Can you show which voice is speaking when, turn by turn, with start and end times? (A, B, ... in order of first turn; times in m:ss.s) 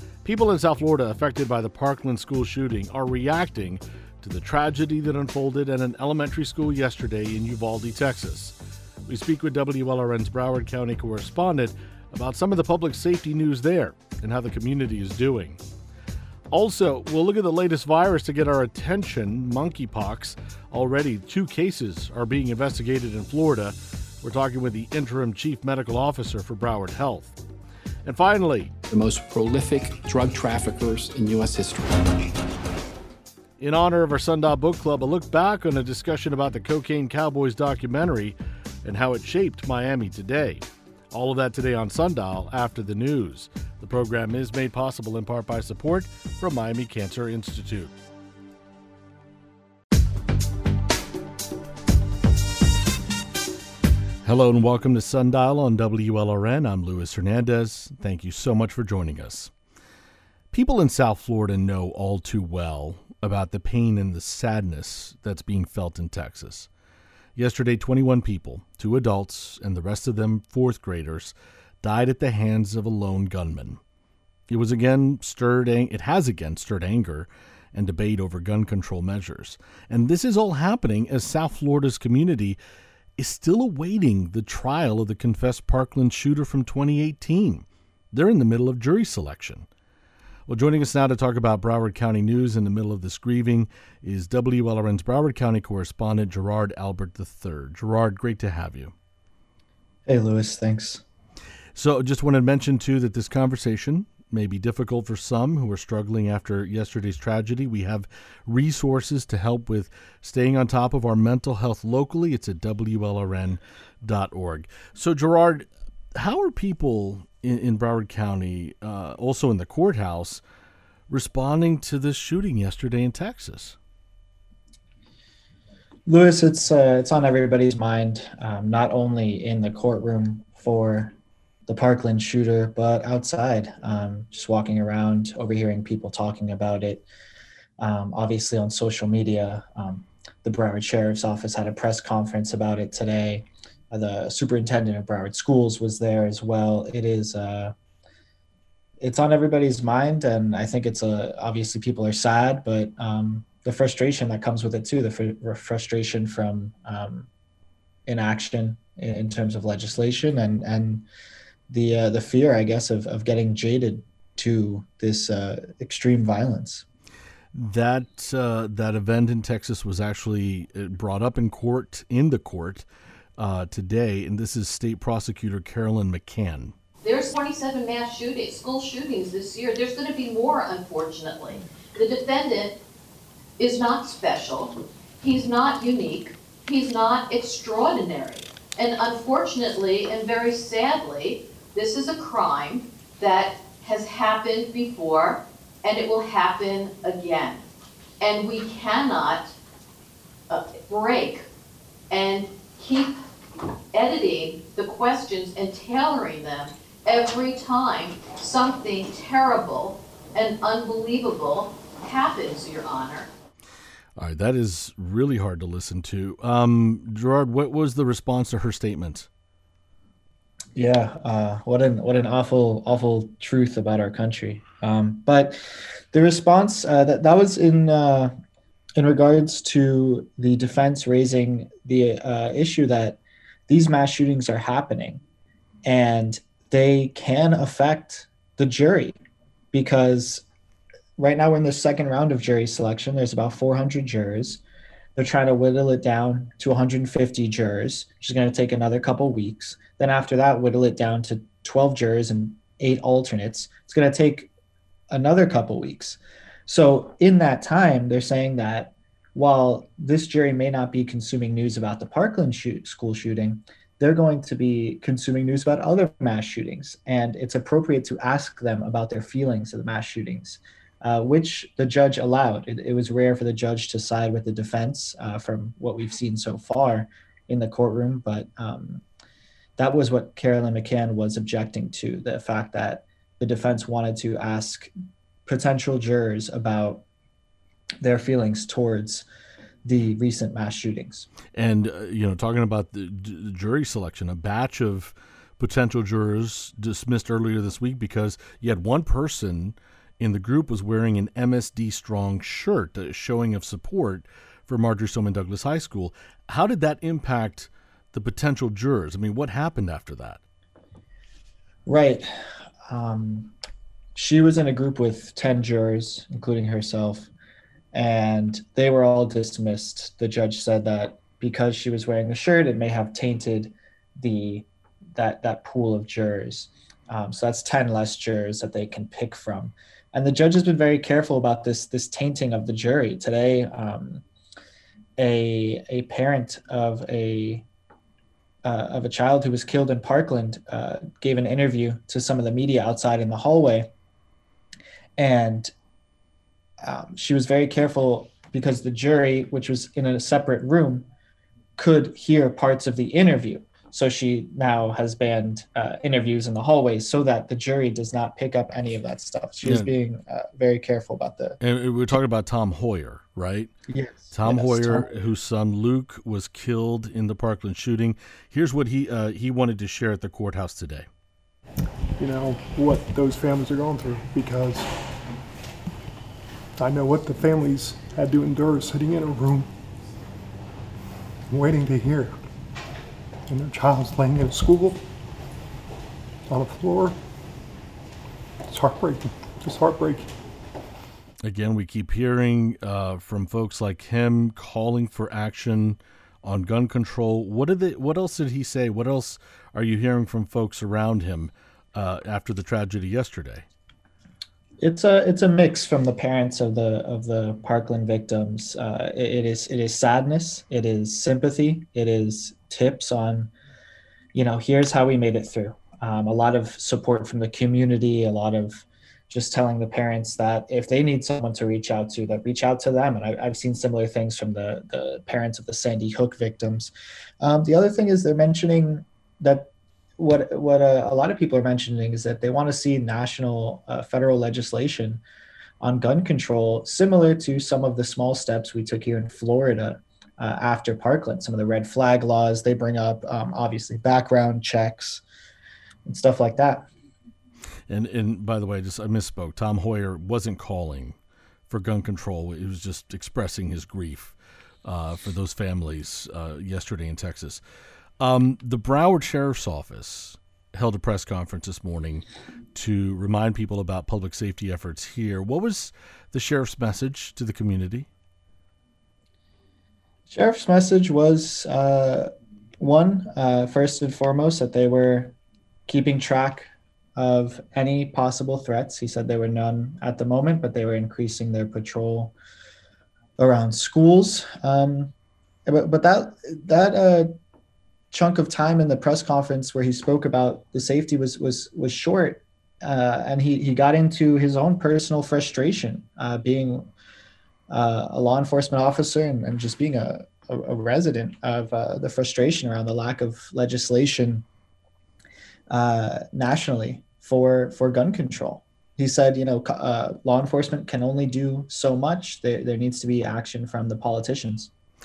0:00.2-0:15.6 A
0:16.5-0:27.4 A
0:28.0-0:28.7 A
0:28.9-0:32.3 B
0:33.6-0:47.9 A
0:54.2-0:59.5 A
1:00.5-1:06.7 A
1:07.4-1:13.8 A
1:14.5-1:22.6 A
1:23.2-1:29.7 A
1:30.5-1:38.9 A
1:40.0-1:41.0 C
1:41.8-2:00.4 A
2:01.1-2:03.8 A
2:06.1-2:11.2 C
2:11.7-2:17.1 C
2:17.8-2:27.7 C
2:29.0-2:37.3 C
2:38.1-2:41.1 C
2:41.7-2:46.8 C
2:47.5-2:52.8 A
2:53.4-2:56.8 A
2:57.0-3:02.8 D
3:03.6-3:17.6 D
3:18.2-3:19.5 D
3:20.5-3:21.4 D
3:22.1-3:23.1 D
3:23.9-3:33.3 D
3:34.2-3:39.3 A
3:40.8-3:45.6 C
3:46.1-3:48.3 C
3:49.0-3:55.2 C
3:55.8-3:59.2 C
3:59.7-4:00.4 C
4:01.2-4:04.6 C
4:05.2-4:14.5 C
4:15.1-4:39.0 C
4:39.8-4:44.9 C
4:45.4-4:47.0 C
4:48.0-4:49.2 C
4:49.8-4:51.3 C
4:51.6-5:10.4 A
5:11.9-5:12.3 C
5:12.9-5:13.5 C
5:14.1-5:17.3 C
5:17.9-5:34.2 C
5:35.2-5:37.6 C
5:38.6-5:43.9 C
5:45.2-5:45.7 C
5:46.8-5:51.1 C
5:51.8-6:01.6 C
5:59.6-5:59.9 A
6:01.6-6:03.7 A
6:03.9-6:05.1 C
6:04.3-6:11.1 A
6:12.2-6:14.9 E
6:16.8-6:19.7 E
6:21.5-6:22.3 E
6:23.5-6:25.0 E
6:26.5-6:27.2 E
6:28.7-6:30.3 E
6:31.4-6:43.6 A
6:44.8-6:53.5 C
6:54.3-7:15.2 C
7:15.8-7:25.2 C
7:26.0-7:26.9 C
7:27.9-7:31.2 A
7:31.7-7:37.6 A
7:38.2-7:48.1 A
7:50.3-7:55.4 C
7:55.9-8:02.3 C
8:03.4-8:05.1 C
8:05.6-8:07.3 C
8:08.1-8:16.9 C
8:17.7-8:24.4 C
8:25.7-8:34.7 C